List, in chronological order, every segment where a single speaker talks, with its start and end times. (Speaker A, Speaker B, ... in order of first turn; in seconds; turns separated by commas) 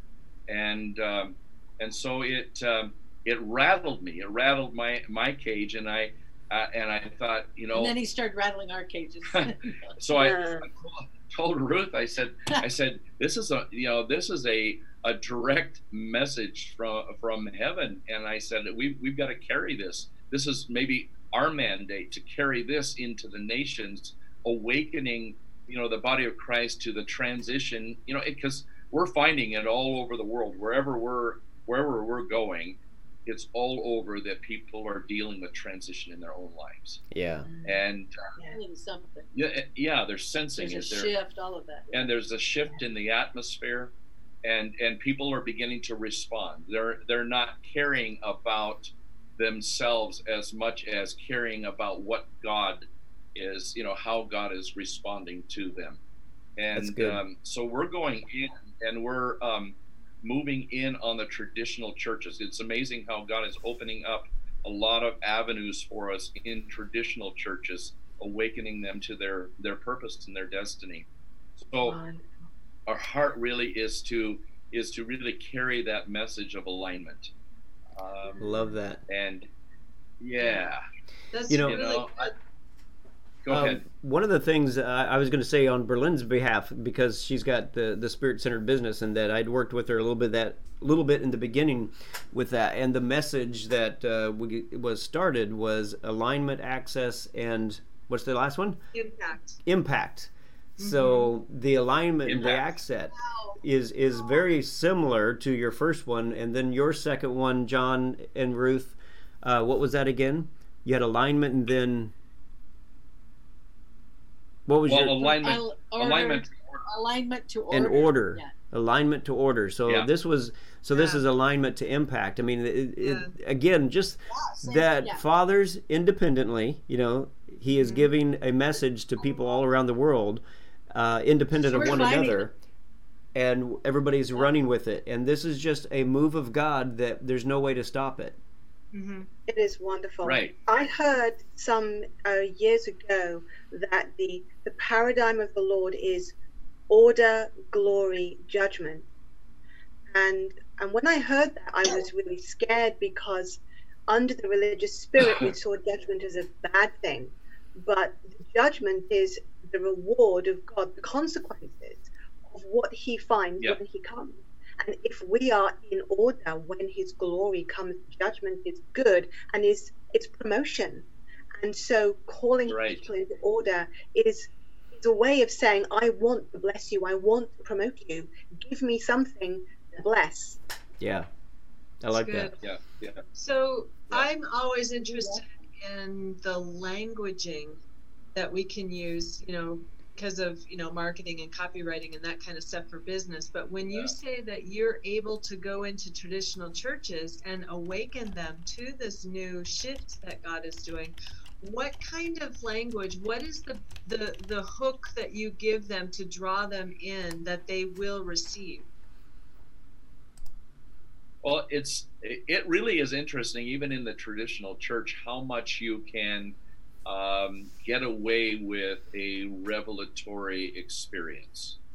Speaker A: 0.5-8.0, Speaker B: 7.7-9.8, Speaker A: 9.3-37.0, Speaker C: 10.1-10.7, Speaker D: 37.1-37.5, Speaker C: 37.5-37.8, Speaker A: 37.6-38.1, Speaker B: 38.5-39.3, Speaker A: 39.3-41.1, Speaker B: 40.6-42.1, Speaker A: 41.9-43.9, Speaker A: 44.4-52.8, Speaker A: 53.4-56.0, Speaker A: 56.6-71.1, Speaker D: 56.7-57.2, Speaker A: 71.6-72.0, Speaker C: 71.8-72.3, Speaker A: 72.9-77.3, Speaker A: 78.0-78.5, Speaker C: 78.3-78.6, Speaker D: 78.4-79.0, Speaker A: 79.1-79.5, Speaker A: 80.2-80.8, Speaker E: 81.3-82.3, Speaker D: 81.5-81.8, Speaker A: 81.6-82.3, Speaker A: 83.5-83.8, Speaker D: 83.5-98.8, Speaker E: 98.9-99.6, Speaker D: 99.6-112.1, Speaker E: 100.8-101.3, Speaker A: 102.2-102.7, Speaker B: 103.2-103.6, Speaker D: 114.7-115.3, Speaker A: 114.9-116.8, Speaker B: 115.2-118.5, Speaker D: 117.7-132.5, Speaker E: 120.9-121.2, Speaker E: 123.0-123.3, Speaker B: 124.3-125.2, Speaker E: 127.8-128.0, Speaker B: 131.7-132.5, Speaker D: 133.3-138.4, Speaker E: 138.9-139.3, Speaker C: 139.5-146.3, Speaker A: 140.2-140.5, Speaker C: 146.9-149.1, Speaker C: 150.1-171.1, Speaker C: 171.6-180.6, Speaker A: 172.7-173.1, Speaker D: 181.0-181.3, Speaker D: 182.0-182.5, Speaker E: 182.1-182.6, Speaker A: 182.6-183.2, Speaker E: 183.3-187.8, Speaker B: 185.0-185.4, Speaker E: 188.3-208.9, Speaker A: 193.9-194.1, Speaker A: 211.4-221.8